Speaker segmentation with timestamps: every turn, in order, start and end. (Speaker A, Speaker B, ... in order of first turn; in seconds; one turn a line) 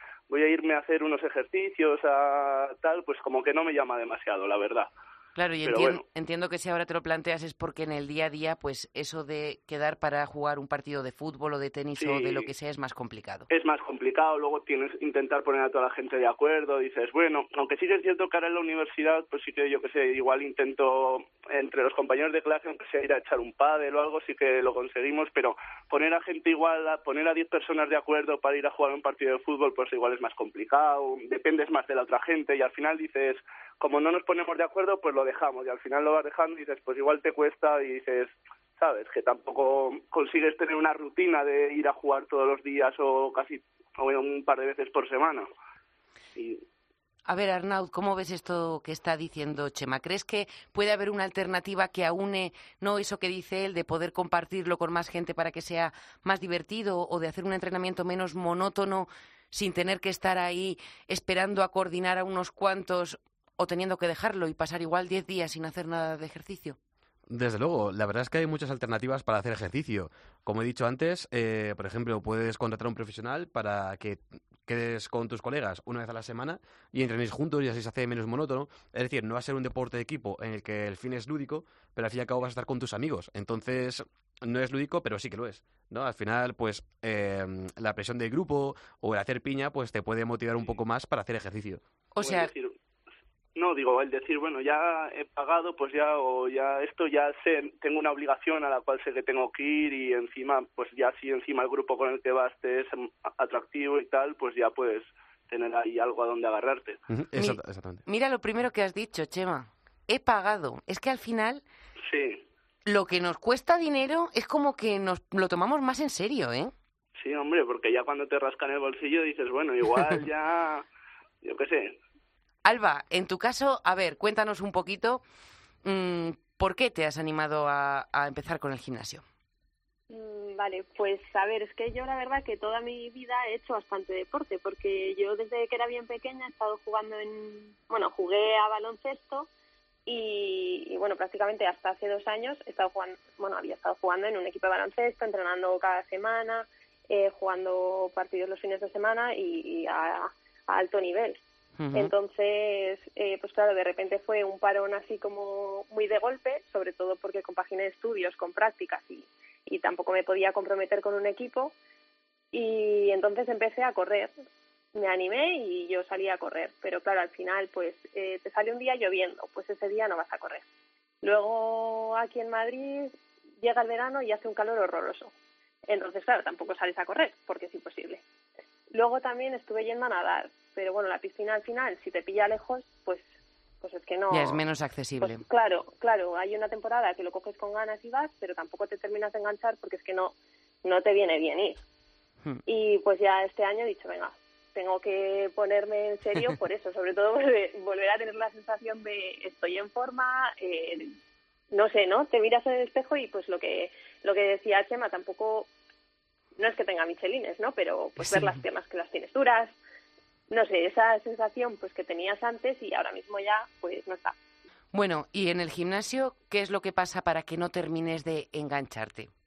Speaker A: 0.3-4.9
Speaker B: 5.4-13.5
Speaker A: 5.7-6.0
Speaker A: 12.0-12.5
Speaker A: 13.5-45.5
Speaker A: 46.4-46.6
Speaker B: 47.3-66.8
Speaker C: 67.3-91.8
Speaker B: 92.1-92.5
Speaker A: 92.2-92.8
Speaker A: 93.6-107.0
Speaker C: 107.1-108.0
Speaker B: 107.4-111.6
Speaker A: 112.0-112.4
Speaker B: 112.9-116.7
Speaker A: 117.2-120.8
Speaker A: 121.4-122.0
Speaker B: 122.7-125.2
Speaker B: 125.8-129.2
Speaker D: 130.1-139.5
Speaker D: 140.1-151.4
Speaker B: 151.8-152.1
Speaker D: 151.9-161.7
Speaker D: 162.5-164.3
Speaker D: 164.9-170.6
Speaker D: 171.2-175.3
Speaker D: 175.9-178.2
Speaker D: 178.9-183.3
Speaker D: 183.8-184.6
Speaker B: 184.3-185.4
Speaker D: 185.2-191.8
Speaker D: 192.7-201.1
Speaker D: 201.7-205.7
Speaker D: 206.6-209.8
Speaker B: 208.2-208.6
Speaker D: 210.5-214.3
Speaker B: 214.9-219.3